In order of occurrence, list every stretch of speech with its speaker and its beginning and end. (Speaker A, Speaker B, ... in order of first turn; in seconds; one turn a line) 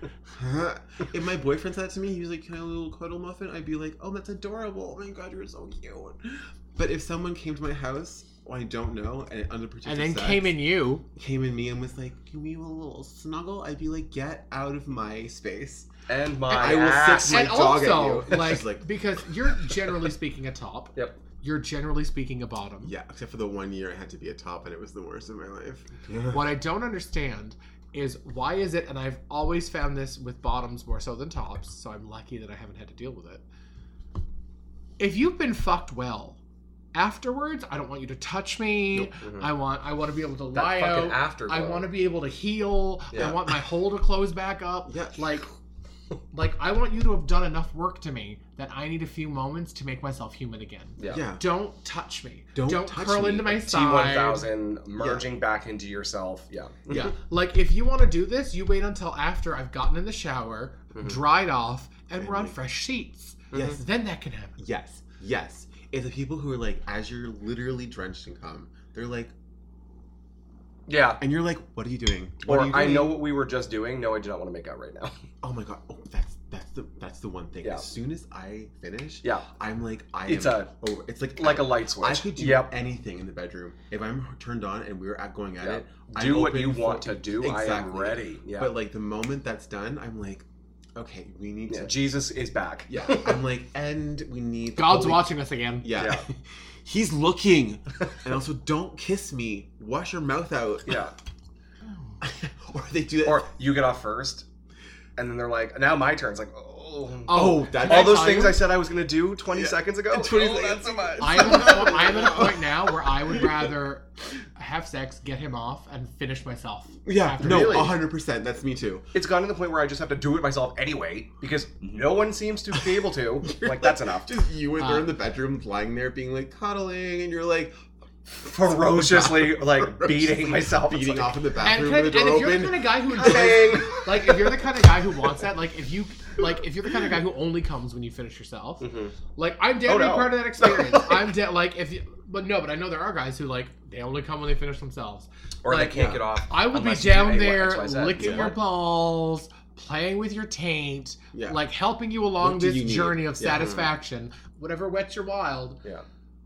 Speaker A: 0.3-10.6
Speaker B: 9.8-11.0
Speaker A: 11.2-15.9
Speaker C: 16.1-17.8
Speaker A: 16.4-19.6
Speaker B: 17.2-22.9
Speaker A: 22.8-26.6
Speaker B: 26.3-33.4
Speaker B: 35.0-36.4
Speaker B: 36.9-45.5
Speaker C: 39.2-39.5
Speaker C: 40.5-41.9
Speaker C: 43.1-43.4
Speaker A: 43.1-43.4
Speaker A: 44.9-45.5
Speaker B: 46.3-54.5
Speaker C: 51.0-51.2
Speaker A: 51.1-51.4
Speaker A: 52.5-53.6
Speaker C: 53.5-57.1
Speaker A: 55.0-55.2
Speaker A: 56.9-57.1
Speaker B: 56.9-64.6
Speaker C: 60.9-61.2
Speaker A: 62.1-62.6
Speaker C: 63.5-63.8
Speaker A: 63.5-63.8
Speaker A: 64.6-69.3
Speaker C: 70.9-71.2
Speaker A: 71.2-73.2
Speaker C: 72.4-75.1
Speaker A: 75.4-92.1
Speaker C: 77.6-77.9
Speaker C: 80.2-80.7
Speaker C: 81.3-82.7
Speaker C: 85.6-88.7
Speaker C: 91.7-93.4
Speaker A: 92.9-101.0
Speaker B: 94.8-96.0
Speaker C: 96.0-96.3
Speaker C: 100.9-101.1
Speaker A: 102.2-103.5
Speaker C: 103.2-104.5
Speaker C: 105.2-112.4
Speaker B: 107.2-108.7
Speaker A: 107.3-108.7
Speaker A: 109.5-113.7
Speaker B: 111.2-118.0
Speaker A: 117.0-119.1
Speaker C: 117.4-117.9
Speaker C: 119.1-124.9
Speaker A: 122.7-134.0
Speaker C: 128.6-131.5
Speaker B: 131.6-155.8
Speaker C: 133.1-134.4
Speaker C: 138.8-139.2
Speaker C: 139.8-141.3
Speaker C: 145.6-148.6
Speaker A: 145.9-146.2
Speaker A: 148.2-148.6
Speaker A: 151.3-151.6
Speaker A: 152.3-153.9
Speaker C: 153.5-153.9